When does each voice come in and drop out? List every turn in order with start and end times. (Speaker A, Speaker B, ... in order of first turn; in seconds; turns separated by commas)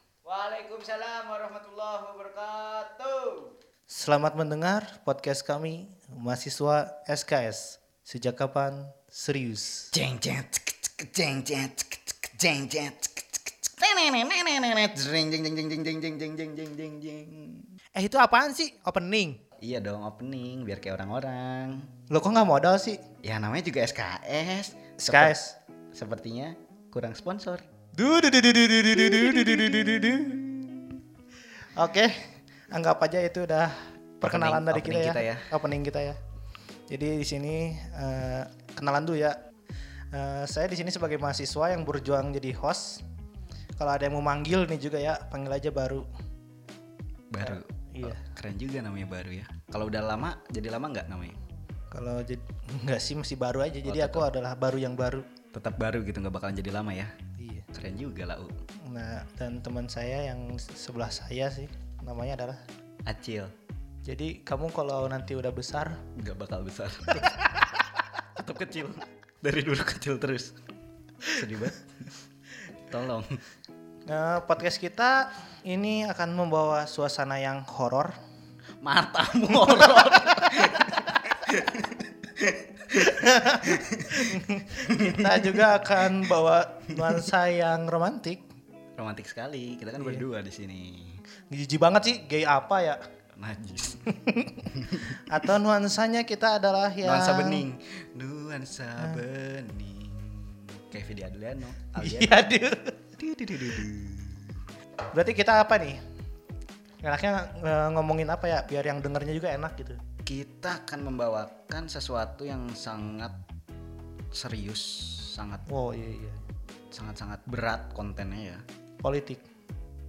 Speaker A: 0.2-3.5, Speaker B: 3.9-9.9, Speaker A: 9.9-17.7, Speaker B: 18.0-19.4, Speaker A: 19.6-21.9, Speaker B: 22.1-23.0, Speaker A: 23.2-25.4, Speaker B: 25.1-25.6, Speaker A: 25.9-27.7, Speaker B: 28.0-30.4, Speaker A: 29.1-30.8, Speaker B: 31.8-32.2, Speaker B: 32.7-36.2, Speaker A: 34.2-35.5, Speaker B: 36.9-39.4, Speaker B: 40.1-43.0, Speaker B: 43.8-46.1, Speaker A: 47.3-51.4, Speaker B: 47.4-48.2, Speaker B: 51.9-55.3, Speaker A: 53.9-54.3, Speaker A: 55.5-57.1, Speaker B: 57.4-57.7, Speaker A: 57.7-58.5, Speaker B: 58.9-62.6, Speaker A: 63.1-63.5, Speaker B: 64.1-66.0, Speaker A: 66.2-70.6, Speaker A: 71.3-72.2, Speaker A: 72.9-73.4, Speaker B: 74.1-78.1, Speaker A: 78.8-85.7, Speaker B: 83.0-88.4, Speaker A: 89.0-91.2, Speaker B: 91.5-93.0, Speaker A: 93.4-94.1, Speaker B: 94.1-97.7, Speaker A: 94.7-95.2, Speaker A: 97.0-102.4, Speaker B: 102.0-103.0, Speaker A: 103.2-104.6, Speaker B: 105.1-106.0, Speaker B: 107.0-110.0, Speaker A: 110.3-113.4, Speaker A: 114.3-115.7, Speaker B: 115.7-116.4, Speaker A: 116.9-118.6, Speaker B: 119.0-119.4